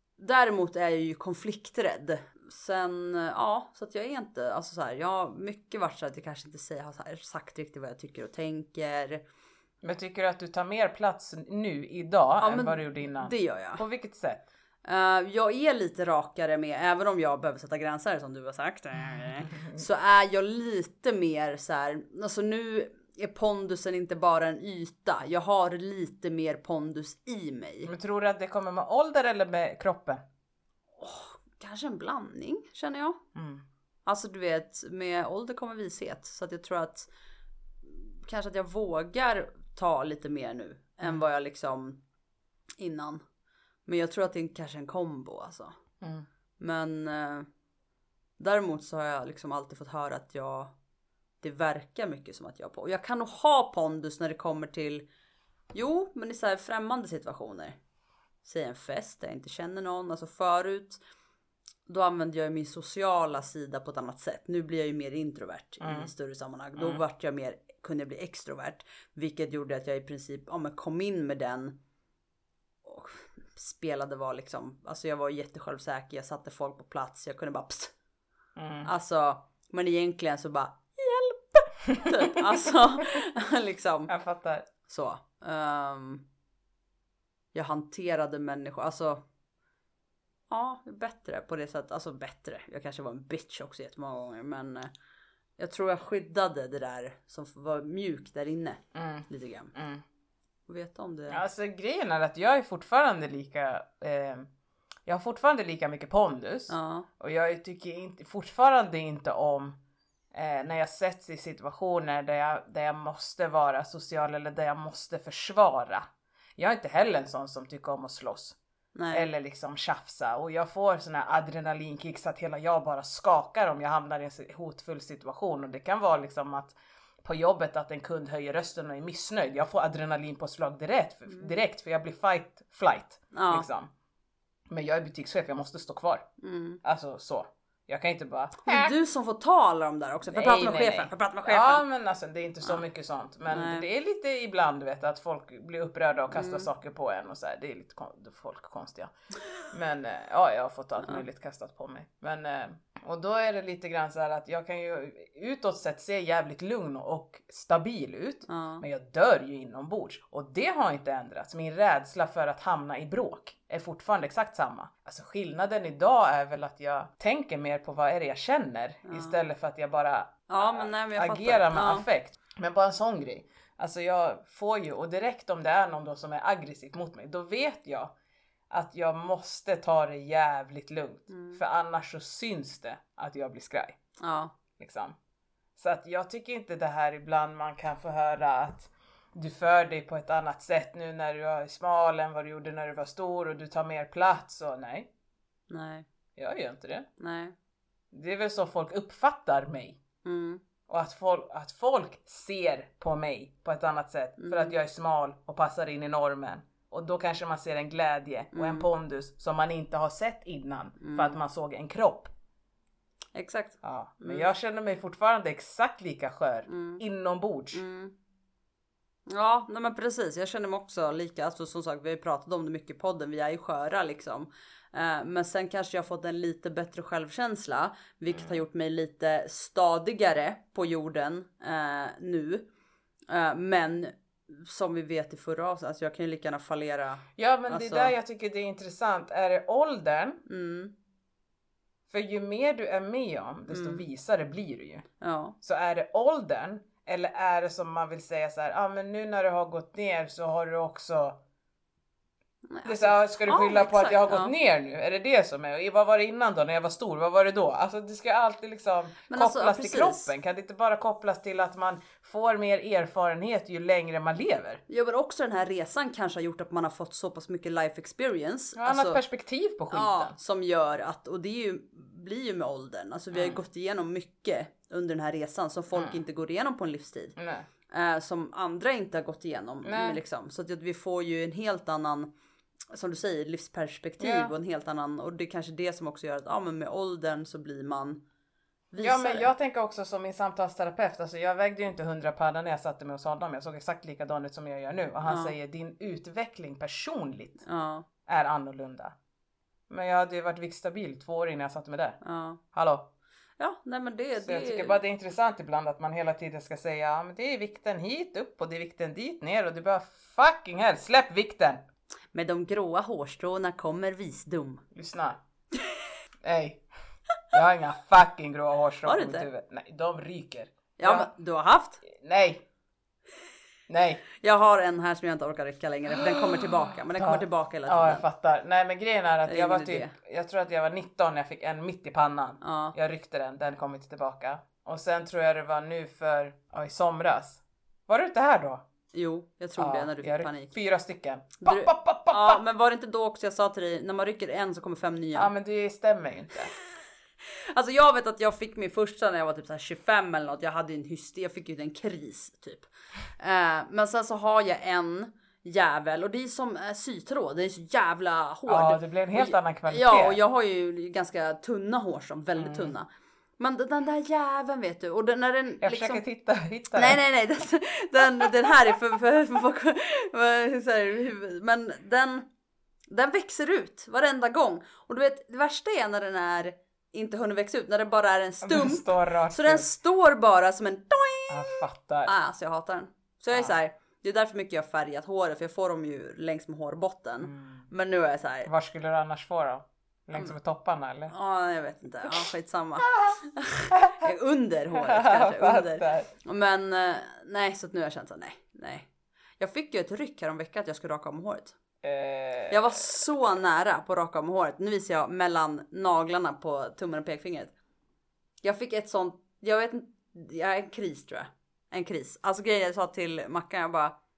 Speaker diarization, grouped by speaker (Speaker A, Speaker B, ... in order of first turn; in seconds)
Speaker A: 0.2-9.2, 12.4-13.8, 14.8-27.9, 31.0-33.2, 34.1-37.1, 37.9-42.0, 42.8-43.2, 43.9-45.7, 46.6-47.5, 48.4-50.7, 51.4-55.1, 55.7-57.8, 58.4-61.0, 61.9-71.8, 72.8-77.9, 78.8-84.1, 84.9-86.2, 87.5-89.2, 90.5-94.9, 95.6-99.7, 100.7-101.4, 106.7-107.1, 119.0-119.3, 131.3-131.6, 133.3-133.7, 136.4-136.8, 138.7-141.8, 143.5-143.9, 146.3-146.7, 158.5-158.8, 169.1-169.4, 170.5-172.1, 181.3-181.6, 184.2-184.5, 195.7-196.1, 197.2-197.6, 200.2-200.6, 204.4-204.8, 208.5-208.9, 211.0-211.4, 213.3-214.5, 216.7-217.0, 217.7-218.1, 219.3-232.7, 233.3-238.1, 240.5-240.9, 243.7-244.0, 245.2-245.6, 252.7-254.5, 259.3-260.3, 264.9-269.2, 269.9-277.4, 277.9-282.3, 282.9-288.2, 288.9-289.5, 295.3-295.6, 297.6-298.1, 302.2-302.6, 303.6-305.0, 312.3-314.8, 319.1-319.5, 321.0-322.0, 324.4-328.2, 329.5-330.1, 332.6-333.0, 339.1-340.7, 341.6-345.5, 347.5-363.1, 363.6-366.2, 366.9-372.5, 373.1-388.7, 391.3-399.1, 399.6-401.8, 402.7-407.7, 408.6-414.1
Speaker B: 9.8-14.5, 19.1-19.8, 27.9-30.2, 33.4-33.6, 65.8-66.1, 66.8-67.0, 78.6-78.9, 82.0-82.6, 84.1-84.7, 98.9-100.0, 101.3-104.5, 105.1-109.8, 110.3-116.0, 116.6-118.6, 119.1-133.9, 134.7-136.3, 136.8-138.9, 140.3-149.1, 149.7-178.1, 178.7-184.0, 184.8-185.2, 185.8-195.1, 196.4-197.1, 198.1-200.0, 200.9-212.3, 213.8-217.8, 228.3-228.6, 237.4-240.4, 242.1-245.1, 245.6-251.4, 252.8-264.8, 268.8-270.3, 273.3-273.6, 275.9-276.2, 277.4-277.7, 279.8-280.2, 284.2-284.5, 289.0-297.6, 298.3-299.1, 299.9-302.2, 302.7-303.1, 304.4-311.8, 314.9-315.4, 316.4-316.8, 317.5-321.3, 322.1-322.6, 323.9-324.2, 326.2-338.8, 339.8-342.6, 345.4-346.7, 358.7-360.4, 362.6-362.9, 365.8-367.2, 378.6-379.9, 381.5-382.3, 387.4-387.9, 388.7-391.3, 393.9-394.3, 394.9-396.3, 402.0-403.1